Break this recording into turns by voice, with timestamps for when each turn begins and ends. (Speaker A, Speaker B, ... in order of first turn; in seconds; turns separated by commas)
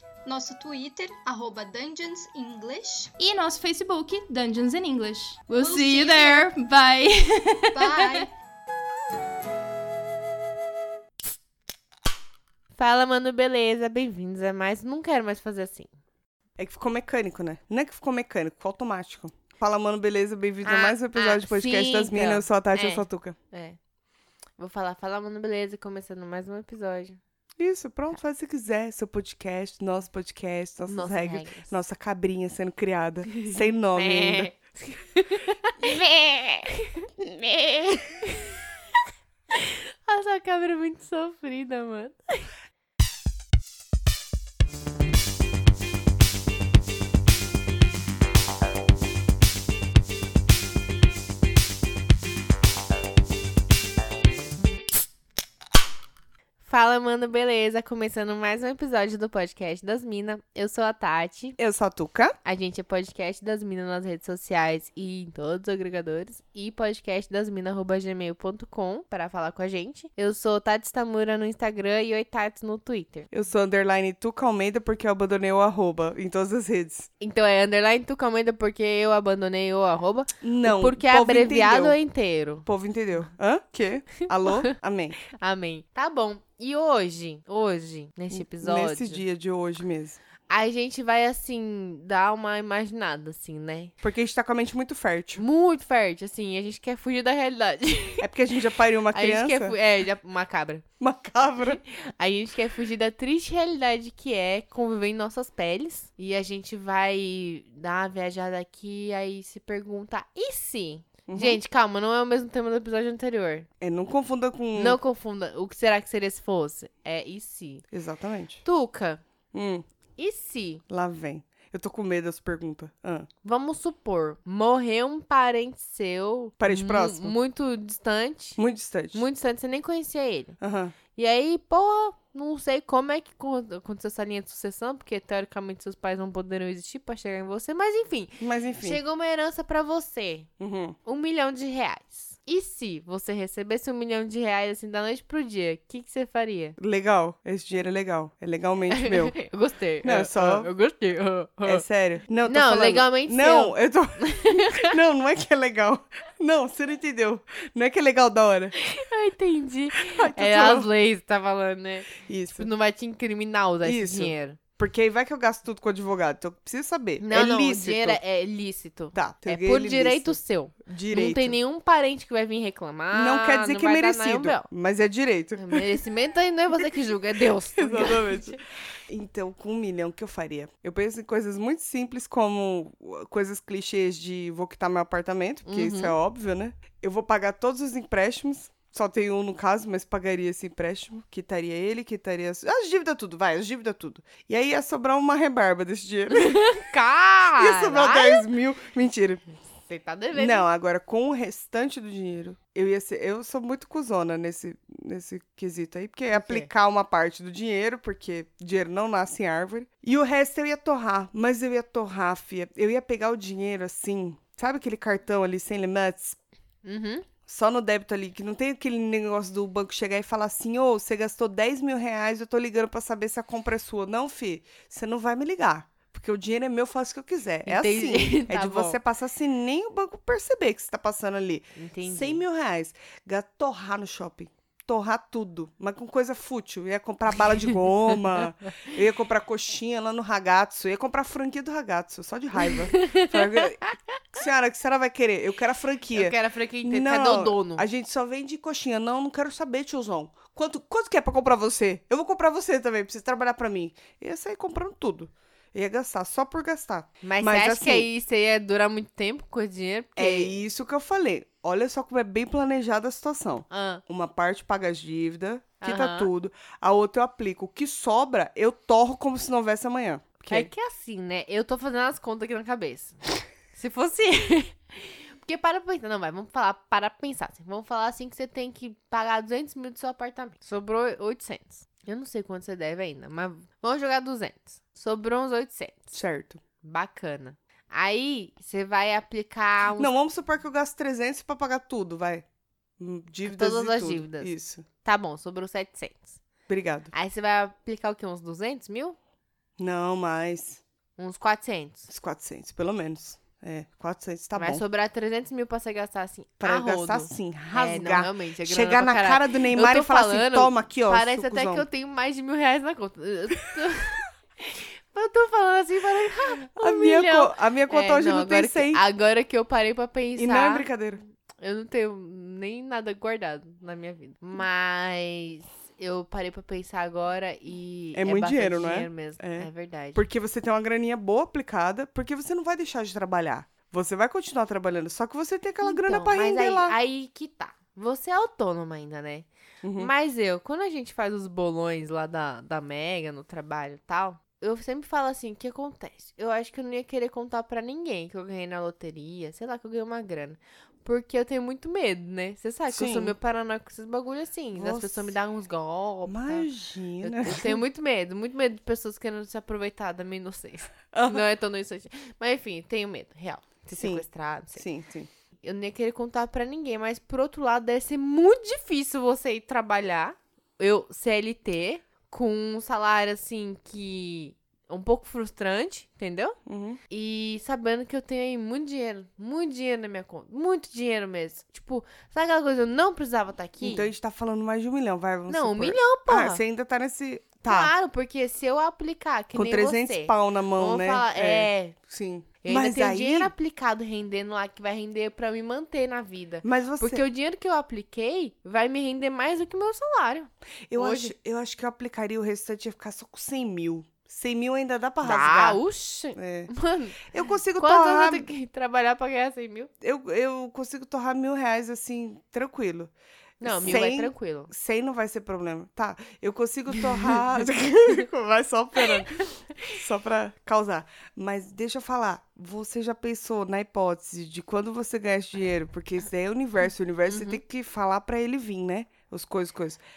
Speaker A: 0.3-3.1, Speaker B: 3.2-8.3, Speaker A: 5.6-6.5, Speaker A: 7.8-8.3, Speaker C: 12.8-15.9, Speaker D: 16.6-23.4, Speaker C: 20.6-23.8, Speaker C: 24.6-27.2, Speaker D: 27.6-34.5, Speaker C: 30.9-31.7, Speaker C: 33.3-38.6, Speaker C: 39.5-42.5, Speaker C: 56.6-61.6, Speaker D: 61.6-62.4, Speaker C: 62.5-73.3, Speaker D: 73.3-77.1, Speaker C: 77.2-82.7, Speaker D: 80.4-82.0, Speaker D: 82.7-85.2, Speaker C: 84.2-84.7, Speaker C: 85.3-89.2, Speaker D: 88.3-90.2, Speaker C: 90.5-93.9, Speaker D: 94.0-95.4, Speaker C: 95.4-98.3, Speaker D: 98.2-99.8, Speaker C: 99.1-100.9, Speaker D: 101.0-101.8, Speaker C: 101.5-113.7, Speaker D: 111.3-111.6, Speaker D: 113.8-115.0, Speaker C: 114.8-117.8, Speaker D: 117.9-118.6, Speaker C: 118.7-119.2, Speaker D: 119.5-119.8, Speaker C: 120.2-120.8, Speaker D: 120.9-123.3, Speaker C: 123.4-128.6, Speaker D: 126.6-127.3, Speaker D: 128.6-129.2, Speaker C: 129.1-130.6, Speaker D: 130.6-130.9, Speaker C: 131.2-140.5, Speaker D: 138.4-139.0, Speaker D: 140.6-141.0, Speaker C: 141.1-146.8, Speaker D: 146.8-149.4, Speaker C: 148.9-151.8, Speaker D: 150.0-150.7, Speaker D: 151.7-158.7, Speaker C: 152.4-154.9, Speaker C: 158.8-164.6, Speaker D: 159.9-160.9, Speaker D: 162.2-162.7, Speaker D: 163.8-168.2, Speaker C: 167.2-174.7, Speaker D: 169.1-171.6, Speaker D: 173.1-175.9, Speaker C: 175.6-178.6, Speaker D: 177.8-196.8, Speaker C: 185.7-186.2, Speaker C: 196.3-198.5, Speaker D: 197.6-199.4, Speaker C: 199.9-200.7, Speaker D: 200.3-216.4, Speaker C: 206.3-206.7, Speaker C: 216.8-217.3, Speaker D: 217.5-258.1, Speaker C: 227.7-229.0, Speaker C: 231.8-232.4, Speaker C: 242.9-243.3, Speaker C: 246.1-247.9, Speaker C: 257.2-260.6, Speaker D: 260.2-270.7, Speaker C: 263.7-264.0, Speaker C: 265.8-266.3, Speaker C: 270.5-286.1, Speaker D: 286.1-286.6, Speaker C: 286.8-290.1, Speaker D: 290.0-292.4, Speaker D: 293.0-294.9, Speaker C: 293.4-296.4, Speaker D: 296.7-297.1, Speaker C: 297.1-299.2, Speaker D: 299.8-300.8, Speaker C: 301.2-302.1, Speaker D: 302.1-304.8, Speaker C: 304.6-320.9, Speaker D: 306.6-311.9, Speaker D: 316.8-319.0, Speaker D: 320.4-321.2, Speaker C: 321.6-330.2, Speaker D: 328.1-337.0, Speaker C: 335.8-356.7, Speaker D: 339.8-340.1, Speaker D: 352.9-353.4, Speaker D: 354.8-355.3, Speaker D: 356.3-357.8, Speaker C: 357.2-364.9, Speaker D: 361.1-361.4, Speaker D: 363.9-364.2, Speaker D: 364.8-365.3, Speaker C: 365.6-376.6, Speaker D: 376.7-377.0, Speaker C: 377.1-384.1, Speaker D: 383.8-387.9, Speaker C: 385.5-386.6, Speaker C: 387.7-392.0, Speaker D: 389.5-393.5, Speaker C: 392.6-401.3, Speaker D: 396.6-397.2, Speaker D: 400.9-405.8, Speaker C: 405.2-407.2, Speaker D: 406.3-406.7, Speaker D: 407.2-408.5, Speaker C: 407.8-409.9, Speaker D: 410.0-430.0, Speaker C: 413.6-414.7, Speaker C: 427.3-427.6